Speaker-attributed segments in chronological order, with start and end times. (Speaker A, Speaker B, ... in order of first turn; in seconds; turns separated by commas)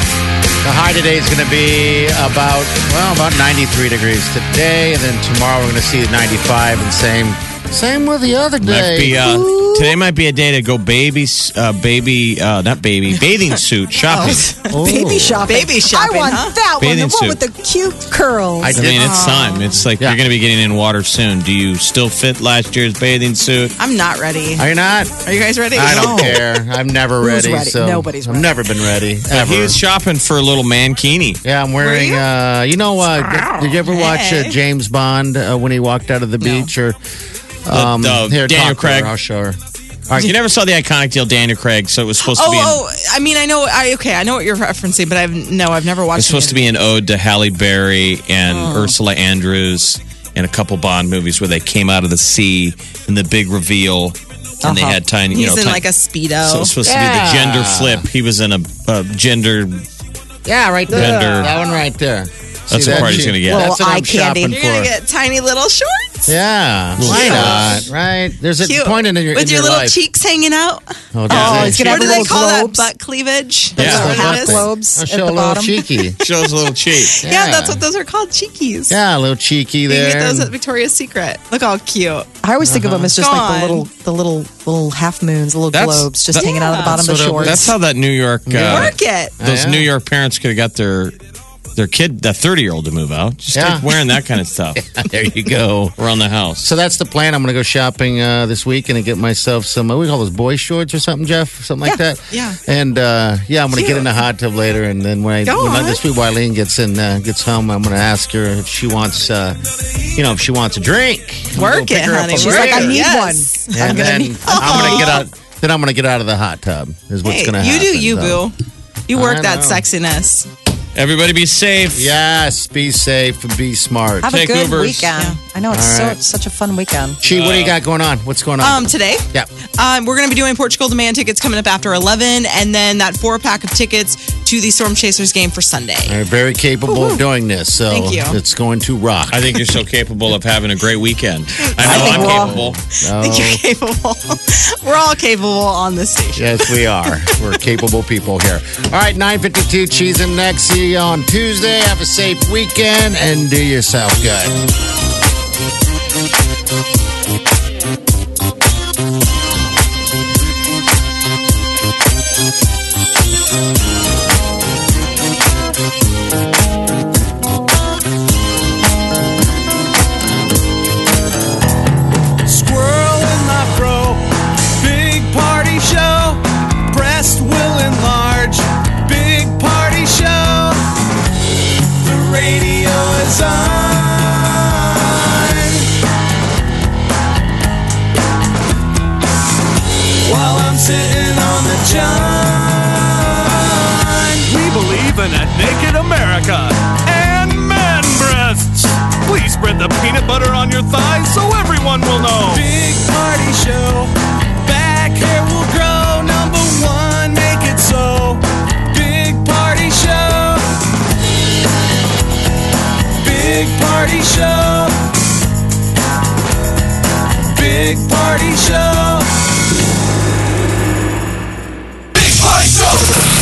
Speaker A: 0.6-9.3, Speaker B: 8.6-14.5, Speaker C: 9.2-9.9, Speaker D: 14.1-14.7, Speaker A: 14.2-15.5, Speaker C: 14.7-18.8, Speaker D: 15.4-16.6, Speaker B: 16.8-17.4, Speaker A: 18.6-19.2, Speaker B: 18.7-23.7, Speaker D: 18.9-19.8, Speaker D: 23.8-24.7, Speaker A: 24.6-25.1, Speaker D: 25.2-26.4, Speaker A: 25.7-29.8, Speaker C: 27.2-28.5, Speaker B: 29.3-31.4, Speaker A: 31.4-37.0, Speaker D: 31.8-32.2, Speaker D: 33.1-34.6, Speaker D: 36.4-36.7, Speaker A: 37.6-39.6, Speaker B: 37.7-39.1, Speaker B: 40.1-42.8, Speaker D: 42.2-46.6, Speaker B: 46.1-55.8, Speaker D: 48.5-49.0, Speaker C: 54.6-55.0, Speaker D: 55.2-56.7, Speaker B: 56.4-59.8, Speaker A: 56.8-58.0, Speaker A: 60.4-64.9, Speaker B: 60.9-61.5, Speaker D: 60.9-61.5, Speaker B: 62.7-63.7, Speaker C: 62.9-64.6, Speaker D: 64.4-66.3, Speaker A: 66.3-70.0, Speaker B: 67.0-67.8, Speaker D: 67.0-67.8, Speaker D: 68.6-74.6, Speaker A: 71.1-72.4, Speaker C: 71.5-72.9, Speaker A: 73.8-76.2, Speaker B: 73.8-74.3, Speaker C: 73.8-75.8, Speaker B: 76.2-77.2, Speaker D: 76.3-79.0, Speaker A: 77.2-77.8, Speaker A: 78.9-80.5, Speaker D: 79.8-82.3, Speaker C: 82.4-87.7, Speaker A: 82.6-83.1, Speaker D: 83.1-83.9, Speaker B: 85.7-91.2, Speaker D: 86.3-87.0, Speaker A: 86.9-87.7, Speaker A: 88.5-89.9, Speaker D: 88.7-89.4, Speaker B: 91.8-94.8, Speaker A: 93.5-93.9, Speaker A: 94.8-96.0, Speaker B: 96.0-96.6, Speaker A: 96.6-109.6, Speaker D: 101.8-102.6, Speaker D: 103.7-104.1, Speaker D: 105.5-106.0, Speaker A: 110.1-113.1, Speaker D: 111.5-115.2, Speaker C: 112.3-114.6, Speaker A: 113.7-118.5, Speaker D: 117.2-118.5, Speaker D: 119.1-120.5, Speaker A: 119.1-119.8, Speaker B: 120.9-122.2, Speaker A: 121.9-124.3, Speaker C: 124.2-127.2, Speaker B: 124.2-125.1, Speaker D: 125.1-125.4, Speaker A: 125.7-126.2, Speaker A: 127.2-129.5, Speaker B: 127.2-127.8, Speaker D: 128.6-129.2, Speaker D: 129.8-136.2, Speaker A: 136.1-139.5, Speaker D: 136.9-137.2, Speaker D: 137.9-138.4, Speaker B: 139.3-142.8, Speaker A: 141.8-143.6, Speaker D: 141.8-142.5, Speaker C: 141.8-142.2, Speaker D: 143.1-147.1, Speaker A: 146.3-154.6, Speaker E: 172.4-180.8, Speaker E: 182.0-185.9, Speaker E: 190.2-210.6, Speaker E: 213.2-214.9, Speaker E: 217.5-219.3